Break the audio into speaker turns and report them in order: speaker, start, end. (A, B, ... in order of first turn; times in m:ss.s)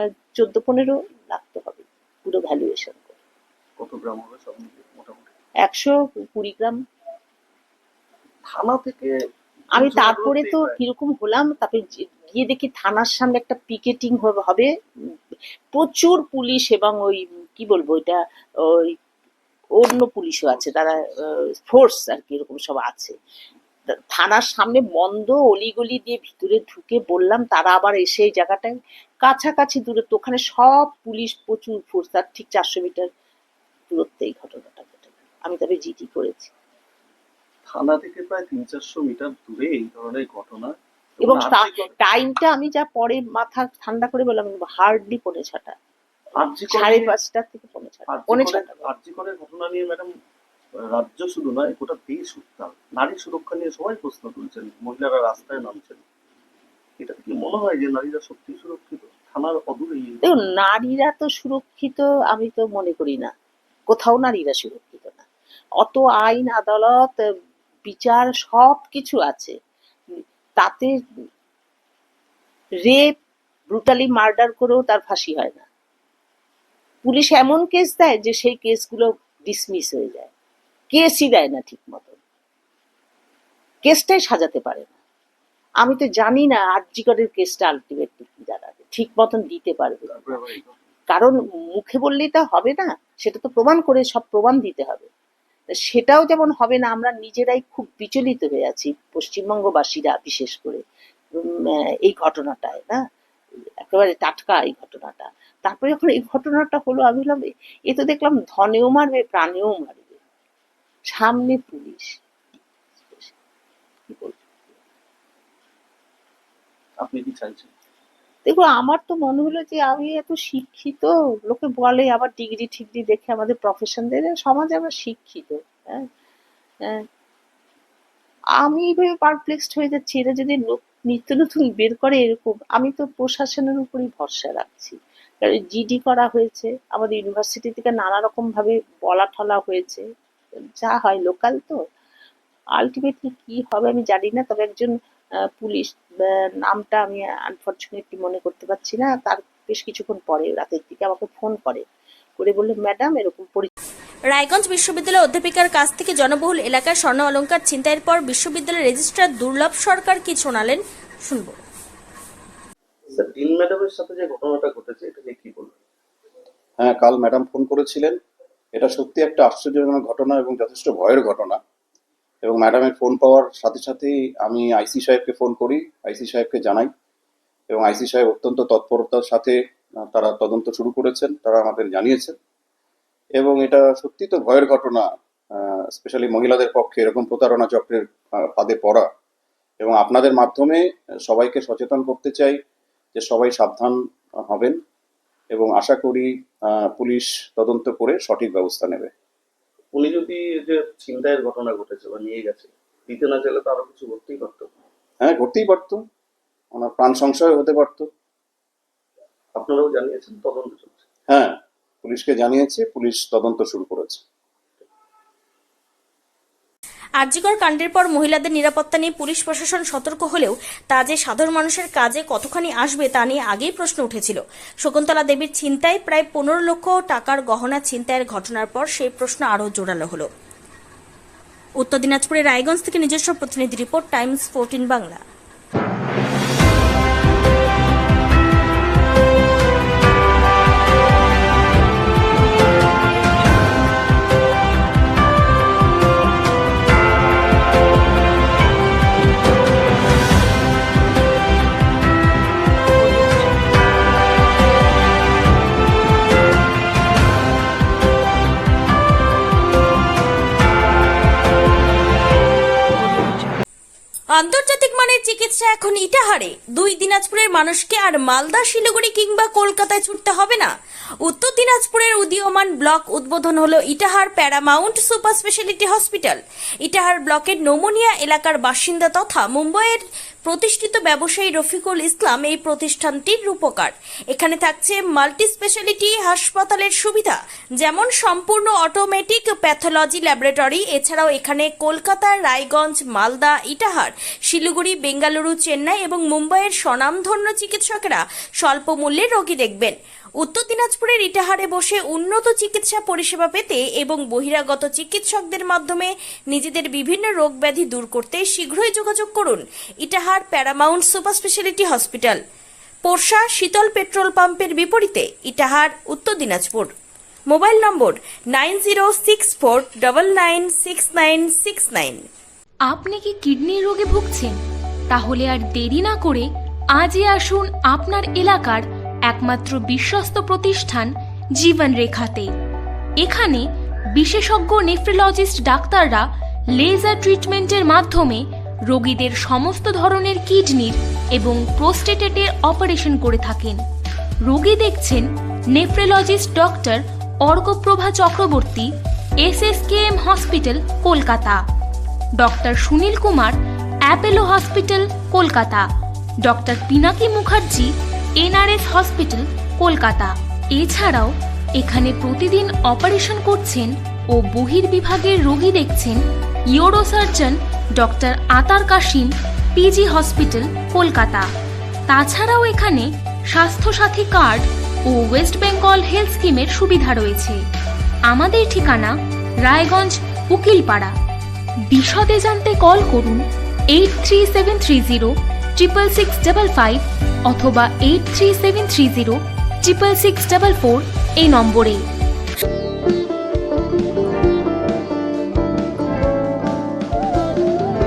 0:00.4-0:03.1 A
0:03.8-0:05.3 B
0:05.6-0:06.8 A
0:08.5-0:09.1 B
0:09.7-0:10.8 B
0:09.8-0:14.7 A
0:15.7-0:18.2 A
0:19.8-0:23.1 A
0:20.5-0:20.9 B
0:23.9-0:33.1 A
0:33.9-0:36.5 A
0:37.7-0:41.9 B
0:41.2-0:45.8 A
0:46.4-0:47.1 B
0:46.7-0:48.9 A
0:48.1-0:50.1 B
0:50.9-0:56.0 B
0:57.0-1:00.3 B
1:00.2-1:03.3 A
1:03.9-1:05.2 A
1:05.8-1:07.1 A
1:07.9-1:09.5 A
1:10.6-1:10.9 A
1:12.8-1:13.1 A
1:13.7-1:15.6 A
1:17.0-1:20.3 A
1:20.9-1:22.2 A
1:23.8-1:25.0 A
1:25.8-1:30.4 A
1:30.1-1:30.7 B
1:31.1-1:35.1 A
1:35.8-1:40.8 A
1:41.6-1:43.0 A
1:43.9-1:50.2 A
1:51.1-1:52.1 A
1:53.0-1:53.3 A
1:54.1-1:54.5 A
1:57.0-1:57.7 B
1:58.4-2:06.0 A
2:08.6-2:20.0 A
2:20.8-2:21.8 A
2:22.8-2:24.9 A
2:25.6-2:25.9 A
2:26.6-2:31.8 A
2:32.4-2:33.7 A
2:34.3-2:41.6 C
2:43.1-2:45.8 B
2:46.8-2:48.2 D
2:48.7-2:51.6 D
2:52.4-2:56.9 D
2:57.7-2:59.6 D
3:00.1-3:02.4 D
3:03.4-3:09.1 D
3:09.8-3:12.6 D
3:13.1-3:14.8 D
3:15.5-3:19.1 D
3:19.9-3:24.7 B
3:25.2-3:26.0 D
3:26.7-3:28.1 D
3:29.6-3:31.0 B
3:31.3-3:34.2 D
3:37.2-3:50.3 C
3:51.8-3:55.2 C
4:24.3-4:30.7 C
4:31.2-5:12.4 C
5:13.0-5:16.9 C
5:17.5-5:22.2 C
5:22.9-5:24.6 E
5:25.1-5:32.5 E
5:33.2-5:36.2 E
5:36.8-5:43.8 E
5:44.4-5:48.9 E
5:49.4-5:51.6 E
5:52.4-5:55.8 E
5:56.4-6:06.2 E
6:06.7-6:11.5 E
6:12.1-6:17.6 E
6:18.3-6:21.1 E
6:21.9-6:32.0 E